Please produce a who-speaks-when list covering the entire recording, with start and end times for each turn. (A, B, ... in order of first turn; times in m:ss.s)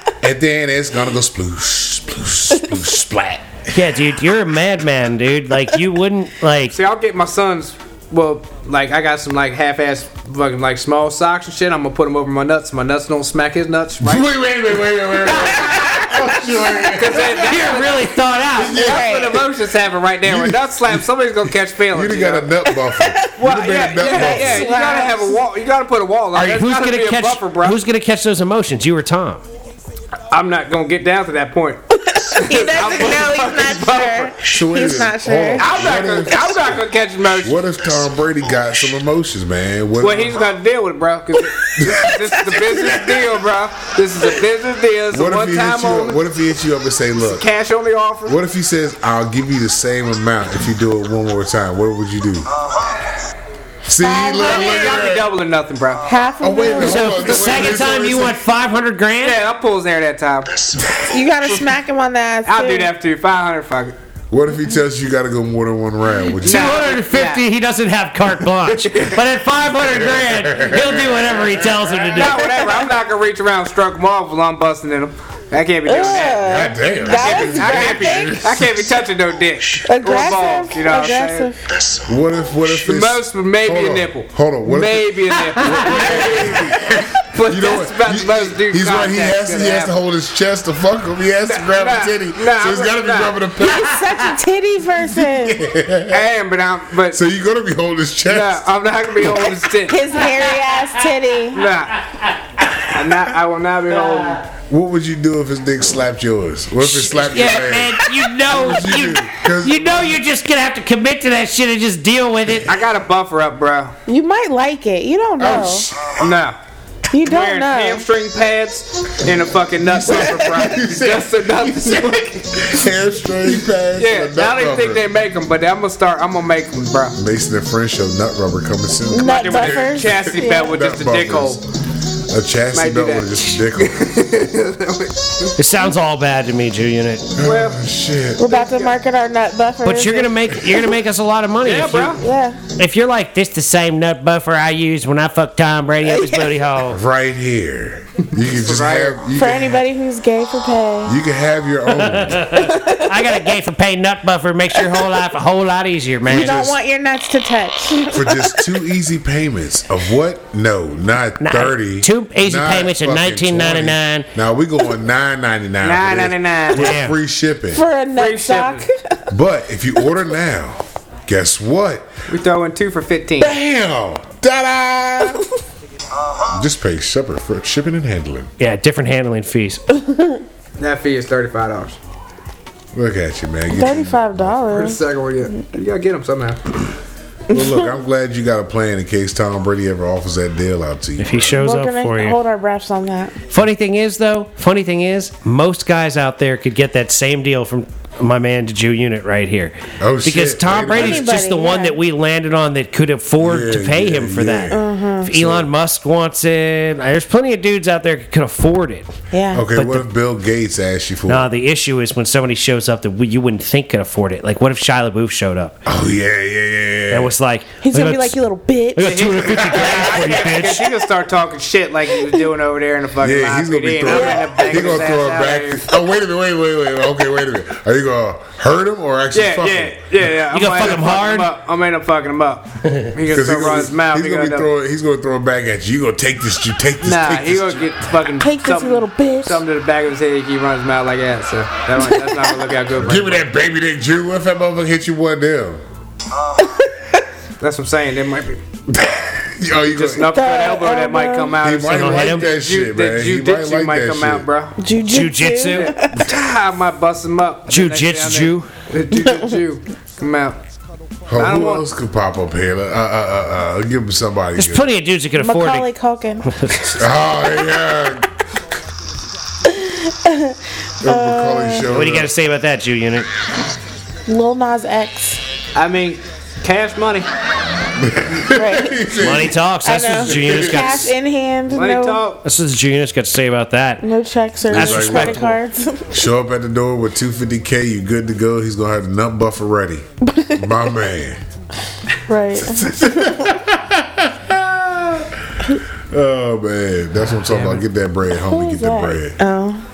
0:00.2-0:03.5 A
0:03.7-0:06.8 B
0:06.7-0:14.3 C
0:14.0-0:17.9 A
0:15.7-0:16.2 D
0:16.9-0:18.1 C
0:17.4-0:18.8 B
0:18.5-0:19.4 A
0:18.6-0:22.5 C
0:18.8-0:19.4 D
0:20.2-0:21.1 A
0:21.9-0:24.8 A
0:23.0-0:23.3 D
0:23.4-0:27.8 C
0:24.0-0:25.4 D
0:26.4-0:29.4 B
0:30.3-0:34.3 C
0:32.1-0:35.7 D
0:34.4-0:36.8 A
0:35.6-0:37.6 C
0:37.4-0:40.4 A
0:40.0-0:46.2 C
0:41.8-0:43.2 A
0:45.1-0:47.5 A
0:47.2-0:48.4 C
0:48.3-0:52.5 A
0:53.9-0:55.3 A
0:54.0-0:54.9 D
0:54.4-0:56.1 C
0:56.0-0:57.4 D
0:56.4-0:58.4 A
0:56.8-0:59.4 B
0:59.2-1:00.7 C
1:00.8-1:01.0 A
1:01.1-1:02.9 D
1:02.4-1:04.0 C
1:04.3-1:06.9 A
1:06.4-1:07.4 C
1:06.4-1:12.5 B
1:08.7-1:09.2 C
1:09.8-1:12.4 A
1:12.1-1:21.5 C
1:15.9-1:18.4 D
1:16.4-1:19.0 A
1:19.8-1:21.6 D
1:21.9-1:34.1 A
1:22.7-1:30.0 C
1:31.5-1:33.4 C
1:33.6-1:35.6 D
1:35.0-1:36.3 A
1:36.1-1:37.2 C
1:37.1-1:38.7 A
1:38.3-1:40.1 C
1:39.9-1:41.6 D
1:40.3-1:41.0 B
1:41.5-1:42.0 C
1:42.8-1:44.4 C
1:44.7-1:50.2 A
1:46.8-1:52.7 B
1:52.7-1:54.0 C
1:54.1-1:55.9 D
1:55.4-1:56.2 A
1:56.2-1:56.6 C
1:57.1-1:58.0 D
1:57.2-2:02.7 C
1:59.9-2:05.0 A
2:04.0-2:07.2 C
2:07.2-2:11.6 A
2:09.1-2:10.7 D
2:09.2-2:11.6 C
2:12.3-2:14.1 A
2:12.7-2:15.5 C
2:15.6-2:17.3 B
2:17.4-2:18.4 A
2:17.4-2:17.8 C
2:18.4-2:20.4 D
2:18.5-2:19.0 C
2:19.8-2:22.2 B
2:21.6-2:22.2 C
2:22.2-2:22.6 D
2:22.8-2:27.0 B
2:26.1-2:26.5 D
2:26.9-2:29.8 A
2:28.4-2:29.2 C
2:29.3-2:31.2 D
2:31.1-2:32.5 A
2:31.9-2:36.7 B
2:32.5-2:33.5 D
2:36.3-2:38.7 D
2:36.3-2:36.7 A
2:38.1-2:47.8 A
2:41.4-2:44.3 B
2:45.8-2:47.0 C
2:46.7-2:47.2 B
2:47.7-2:49.3 D
2:48.1-2:48.9 C
2:49.3-2:52.1 A
2:52.3-2:53.6 C
2:53.4-2:55.4 A
2:56.5-2:58.5 A
2:58.6-2:59.8 B
3:00.1-3:00.4 D
3:00.8-3:02.0 C
3:02.9-3:04.7 A
3:03.7-3:05.0 D
3:04.7-3:06.6 C
3:07.5-3:11.6 A
3:11.2-3:12.4 B
3:11.6-3:13.4 D
3:13.5-3:29.1 B
3:20.0-3:21.4 A
3:20.9-3:22.0 D
3:23.4-3:25.7 A
3:24.7-3:25.3 D
3:29.3-3:29.7 D
3:29.5-3:31.5 A
3:29.7-3:30.1 B
3:31.3-3:35.8 B
3:35.8-3:37.3 A
3:37.1-3:38.4 B
3:37.8-3:39.4 D
3:39.0-3:40.9 B
3:39.0-3:45.9 C
3:43.2-3:50.1 A
3:44.0-3:44.9 D
3:49.3-3:54.7 C
3:50.5-3:51.5 B
3:52.9-3:53.1 B
3:53.3-3:57.8 A
3:57.0-4:03.4 C
3:58.4-3:59.6 D
4:02.0-4:02.5 D
4:03.0-4:05.8 A
4:07.6-4:08.6 C
4:08.9-4:10.4 A
4:09.9-4:14.8 C
4:10.3-4:11.6 D
4:11.6-4:14.5 A
4:11.9-4:12.5 B
4:14.8-4:16.2 D
4:15.1-4:15.9 B
4:15.6-4:20.6 C
4:17.7-4:18.7 B
4:21.3-4:24.9 A
4:21.3-4:21.9 C
4:24.6-4:25.9 B
4:25.4-4:26.5 D
4:26.6-4:26.9 B
4:27.0-4:28.3 A
4:29.8-4:31.9 D
4:31.0-4:32.3 A
4:31.9-4:33.3 B
4:34.3-4:35.4 D
4:35.8-4:37.3 C
4:38.0-4:39.6 A
4:38.5-4:39.1 D
4:39.2-4:41.1 B
4:39.8-4:42.3 D
4:40.2-4:41.1 A
4:41.7-4:42.4 C
4:42.4-4:44.0 B
4:44.0-4:46.1 D
4:44.7-4:45.6 A
4:44.7-4:45.6 B
4:46.1-4:51.4 A
4:52.3-4:53.4 D
4:52.6-4:59.4 A
4:58.3-4:59.8 D